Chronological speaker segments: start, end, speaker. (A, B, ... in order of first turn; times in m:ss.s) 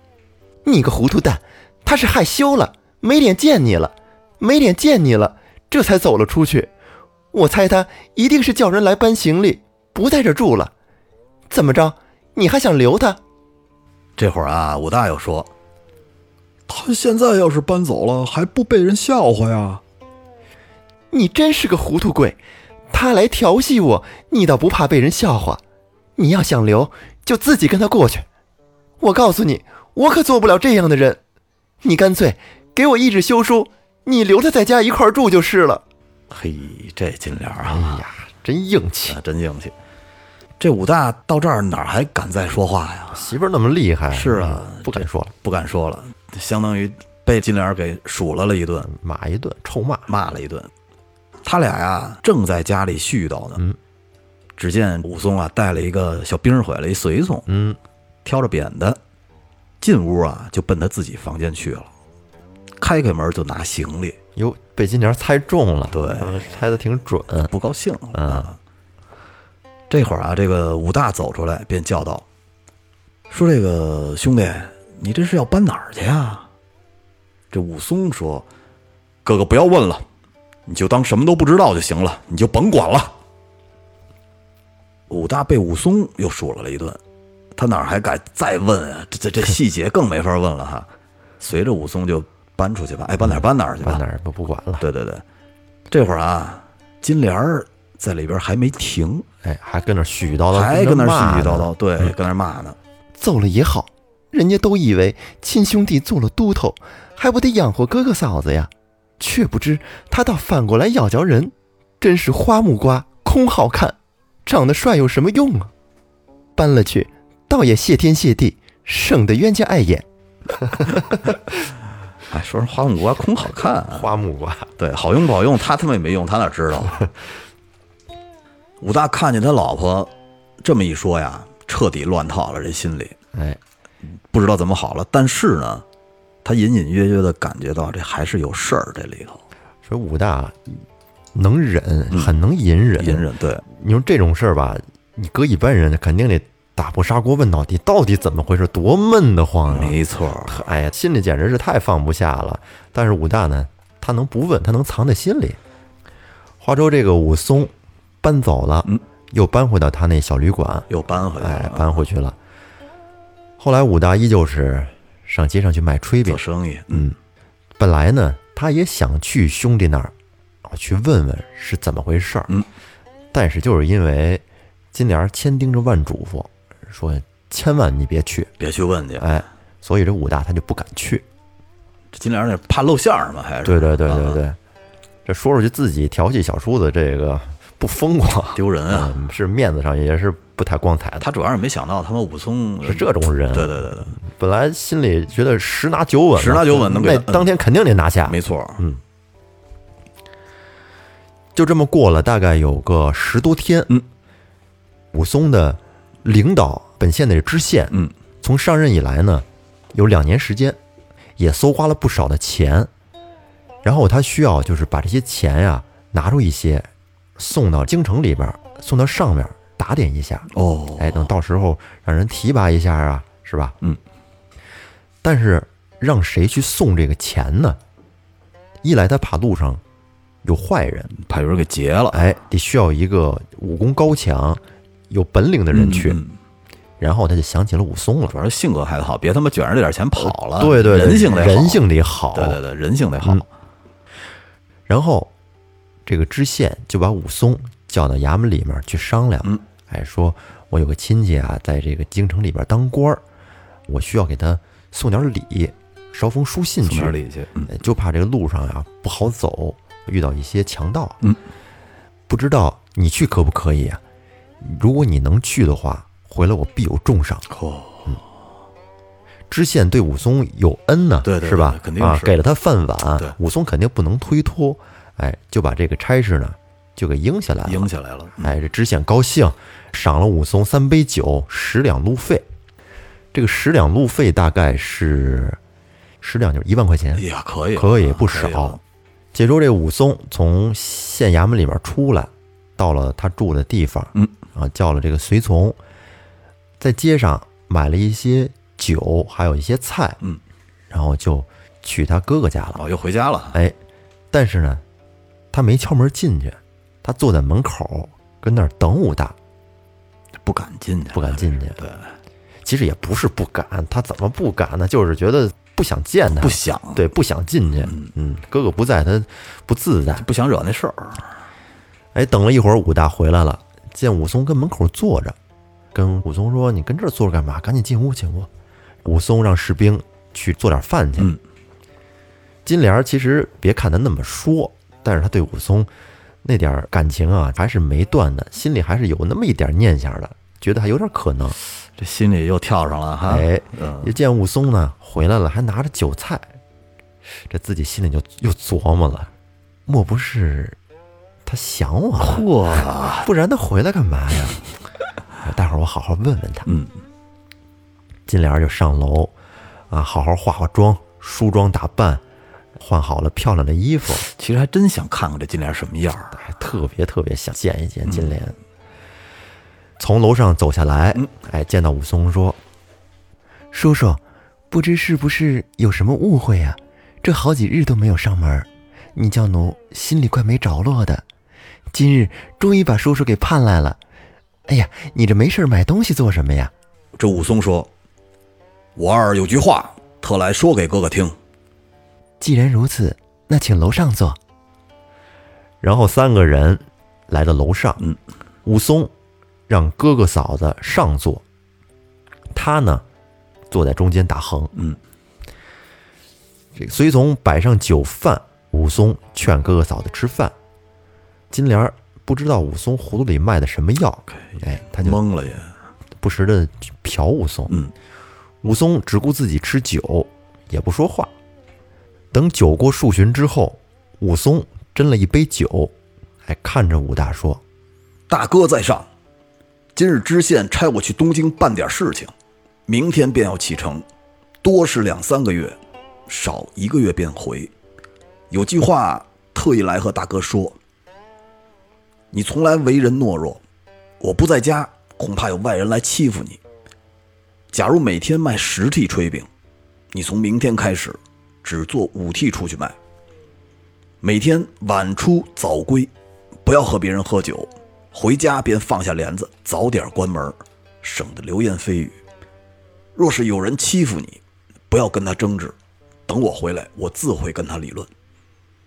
0:00.6-0:06.7 A
0:07.3-0:10.7 A
0:11.5-0:13.2 A
0:14.2-0:15.5 B
0:16.7-0:19.8 B
0:21.1-0:22.4 A
0:22.9-0:25.6 A
0:26.2-0:28.2 A
0:29.0-0:31.2 A
0:31.8-0:35.8 A
0:36.3-0:38.0 B
0:37.6-0:39.2 A
0:39.1-0:39.7 B
0:40.6-0:43.3 B
0:43.1-0:45.3 A
0:44.1-0:48.9 B
0:48.8-0:50.1 A
0:50.1-0:50.7 B
0:51.4-0:53.6 B
0:54.6-0:57.5 B
0:57.5-0:57.8 A
0:58.2-0:59.0 B
0:59.8-1:01.9 B
1:02.8-1:04.2 B
1:04.4-1:07.5 A
1:05.9-1:06.3 B
1:07.5-1:08.6 B
1:08.1-1:08.5 A
1:09.9-1:12.2 B
1:13.3-1:16.5 B
1:17.5-1:18.5 B
1:19.2-1:20.0 B
1:20.7-1:23.1 B
1:25.1-1:27.0 B
1:27.6-1:30.9 B
1:31.4-1:34.0 B
1:33.2-1:34.8 A
1:34.8-1:35.2 B
1:35.9-1:39.3 B
1:39.4-1:42.2 A
1:40.5-1:42.8 B
1:43.2-1:55.7 A
1:56.6-2:00.0 A
2:02.3-2:04.1 B
2:03.9-2:04.7 A
2:04.8-2:07.1 B
2:08.8-2:13.2 B
2:13.3-2:13.6 A
2:14.3-2:15.8 B
2:16.4-2:19.4 B
2:19.9-2:20.8 A
2:21.4-2:35.6 A
2:22.1-2:22.4 B
2:23.0-2:23.6 B
2:29.7-2:30.6 B
2:36.6-2:42.4 A
2:40.9-2:42.0 B
2:43.6-2:47.2 A
2:46.3-2:47.1 B
2:47.8-2:50.1 A
2:50.7-2:52.5 A
2:53.3-2:58.5 A
2:58.6-2:59.3 B
2:59.2-3:01.2 A
3:02.1-3:04.4 B
3:03.6-3:04.6 A
3:05.3-3:11.3 A
3:08.5-3:09.2 B
3:11.2-3:14.2 B
3:12.8-3:19.0 A
3:16.4-3:17.5 B
3:18.3-3:18.8 B
3:21.6-3:23.9 A
3:25.1-3:30.8 A
3:31.4-3:32.9 A
3:33.8-3:43.8 A
3:40.5-3:41.3 B
3:45.2-3:47.8 A
3:48.8-3:49.8 A
3:50.4-3:51.1 A
3:51.1-3:52.2 B
3:52.1-3:56.2 A
3:55.7-3:56.3 B
3:57.0-3:58.4 A
3:58.3-4:03.5 B
4:00.2-4:02.6 A
4:04.9-4:05.3 A
4:06.1-4:13.2 A
4:13.9-4:17.2 A
4:16.8-4:17.8 B
4:17.7-4:21.2 A
4:22.3-4:24.0 A
4:24.6-4:27.4 A
4:27.5-4:28.2 B
4:29.5-4:37.9 A
4:31.2-4:32.3 B
4:37.6-4:38.6 B
4:38.4-4:42.4 A
4:43.3-4:45.6 A
4:46.2-4:47.2 A
4:47.2-4:48.8 B
4:47.8-4:48.8 A
4:49.3-4:55.8 A
4:56.8-5:00.2 A
5:00.9-5:02.8 A
5:02.8-5:03.6 B
5:04.3-5:04.8 A
5:05.5-5:09.4 A
5:10.4-5:12.1 B
5:11.1-5:11.8 A
5:12.6-5:20.3 A
5:16.3-5:17.1 B
5:20.2-5:21.3 B
5:22.2-5:25.4 A
5:25.9-5:28.5 A
5:29.0-5:31.4 A
5:32.7-5:35.9 A
5:36.4-5:41.6 A
5:42.0-5:44.2 B
5:43.3-5:46.5 A
5:47.5-5:49.3 A
5:49.9-5:50.8 A
5:51.5-5:52.4 A
5:52.2-5:53.3 B
5:53.2-5:54.6 A
5:55.4-5:56.7 A
5:56.7-5:56.9 B
5:58.3-5:59.3 A
5:59.9-6:02.2 A
6:02.8-6:04.2 A
6:04.2-6:06.4 B
6:06.4-6:08.6 A
6:08.1-6:08.4 B
6:10.0-6:12.6 A
6:13.7-6:21.2 A
6:21.9-6:24.0 A
6:24.7-6:26.7 A
6:27.2-6:27.9 B
6:29.0-6:31.4 B
6:32.4-6:34.4 A
6:35.8-6:38.0 A
6:38.6-6:39.1 A
6:39.7-6:41.4 A
6:42.5-6:43.0 A
6:43.7-6:44.7 A
6:46.8-6:50.5 A
6:51.5-6:55.2 A
6:54.3-6:55.7 B
6:56.2-6:57.8 A
6:58.6-7:01.3 A
7:02.3-7:05.9 A
7:06.4-7:07.6 A
7:08.3-7:09.1 B
7:10.0-7:12.3 B
7:12.9-7:14.1 B
7:14.6-7:17.7 B
7:18.5-7:20.8 B
7:22.3-7:23.6 B
7:24.2-7:26.6 B
7:27.7-7:29.5 B
7:30.1-7:33.0 B
7:34.2-7:36.1 B
7:36.6-7:42.2 B
7:43.2-7:45.8 B
7:46.3-7:48.1 B